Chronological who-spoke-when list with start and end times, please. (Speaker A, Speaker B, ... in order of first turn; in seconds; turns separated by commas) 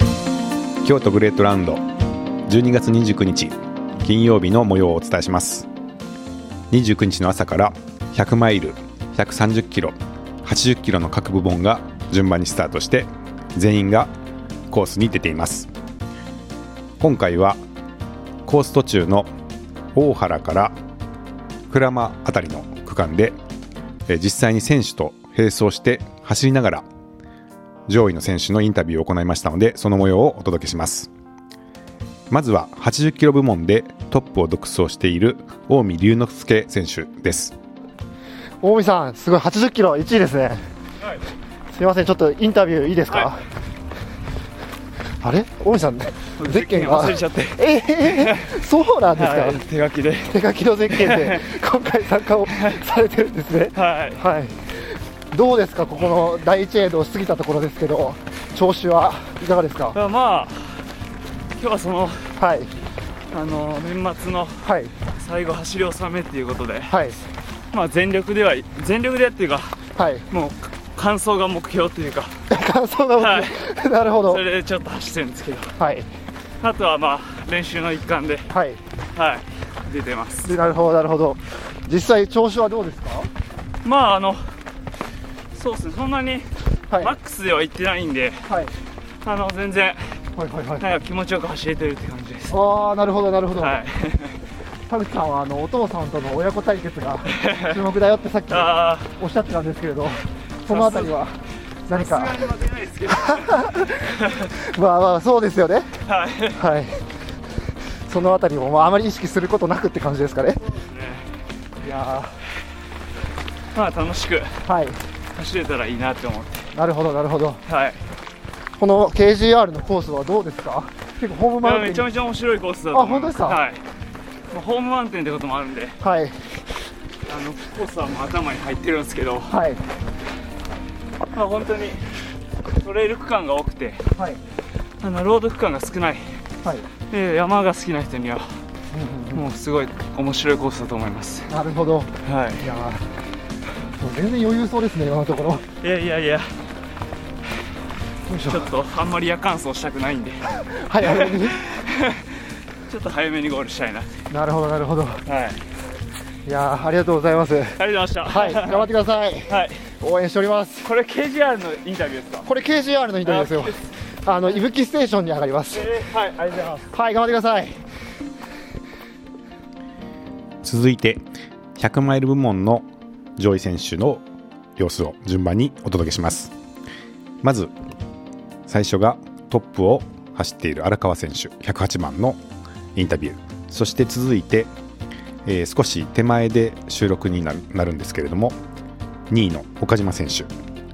Speaker A: 0.8-1.8, Speaker A: 2.5-5.7, Speaker A: 6.7-14.1, Speaker A: 14.7-15.7, Speaker A: 17.0-17.6, Speaker A: 18.4-19.3, Speaker A: 19.9-20.8, Speaker A: 21.7-23.4, Speaker A: 24.1-26.9, Speaker A: 27.9-31.1, Speaker A: 32.3-37.5, Speaker B: 38.6-40.6, Speaker B: 41.7-43.4, Speaker B: 45.2-49.6, Speaker C: 46.4-48.5, Speaker C: 49.1-50.4, Speaker B: 50.2-54.6, Speaker C: 50.9-51.4, Speaker C: 53.7-54.2, Speaker B: 55.3-60.0, Speaker C: 59.9-60.8, Speaker C: 61.6-62.3, Speaker B: 62.4-62.7, Speaker C: 63.3-67.0, Speaker B: 64.6-64.9, Speaker B: 66.9-67.3, Speaker C: 67.7-69.8, Speaker B: 70.0-70.3, Speaker C: 70.3-72.3, Speaker B: 72.5-74.5, Speaker C: 73.2-73.5, Speaker C: 74.3-75.7, Speaker B: 75.8-76.1, Speaker C: 76.6-78.5, Speaker B: 78.5-78.8, Speaker C: 79.2-80.5, Speaker B: 80.4-83.3, Speaker C: 83.8-84.5, Speaker C: 85.5-88.4, Speaker B: 88.5-88.7, Speaker C: 89.2-90.0, Speaker B: 90.4-90.9, Speaker C: 90.8-92.5, Speaker B: 92.5-93.8, Speaker C: 93.6-94.3, Speaker B: 94.9-101.4, Speaker C: 97.3-97.8, Speaker C: 98.5-99.1, Speaker C: 100.7-101.2, Speaker C: 101.9-104.4, Speaker B: 101.9-102.4, Speaker B: 103.1-105.9, Speaker C: 106.1-106.6, Speaker B: 106.6-107.0, Speaker B: 108.1-110.6, Speaker C: 110.7-111.2, Speaker B: 111.8-112.4, Speaker C: 113.7-114.5, Speaker B: 114.7-115.0, Speaker C: 115.3-116.7, Speaker B: 116.8-117.6, Speaker C: 117.7-118.0, Speaker B: 118.8-122.1, Speaker C: 121.6-123.8, Speaker B: 122.9-123.6, Speaker C: 124.5-126.0, Speaker B: 126.0-126.4, Speaker C: 127.3-129.6, Speaker B: 129.5-129.8, Speaker C: 131.3-132.0, Speaker C: 132.8-134.0, Speaker B: 134.2-134.4, Speaker C: 135.0-136.3, Speaker C: 137.1-138.5, Speaker B: 138.9-139.4, Speaker C: 139.3-141.5, Speaker B: 141.5-143.1, Speaker C: 142.2-142.7, Speaker B: 144.0-145.7, Speaker C: 145.8-146.5, Speaker B: 148.3-148.7, Speaker C: 148.5-152.3, Speaker B: 150.7-151.6, Speaker C: 152.9-154.1, Speaker B: 154.3-155.2, Speaker C: 155.3-155.6, Speaker B: 156.4-160.9, Speaker C: 157.8-158.9, Speaker C: 159.5-159.8, Speaker C: 160.8-162.5, Speaker B: 162.5-165.9, Speaker C: 163.2-163.8, Speaker C: 165.7-166.9, Speaker B: 166.9-167.8, Speaker A: 170.6-171.2, Speaker A: 171.8-172.9, Speaker A: 173.4-174.3, Speaker A: 174.8-176.5, Speaker A: 177.4-177.7, Speaker A: 178.7-182.4, Speaker A: 182.9-184.7, Speaker A: 185.5-188.6, Speaker A: 189.3-190.5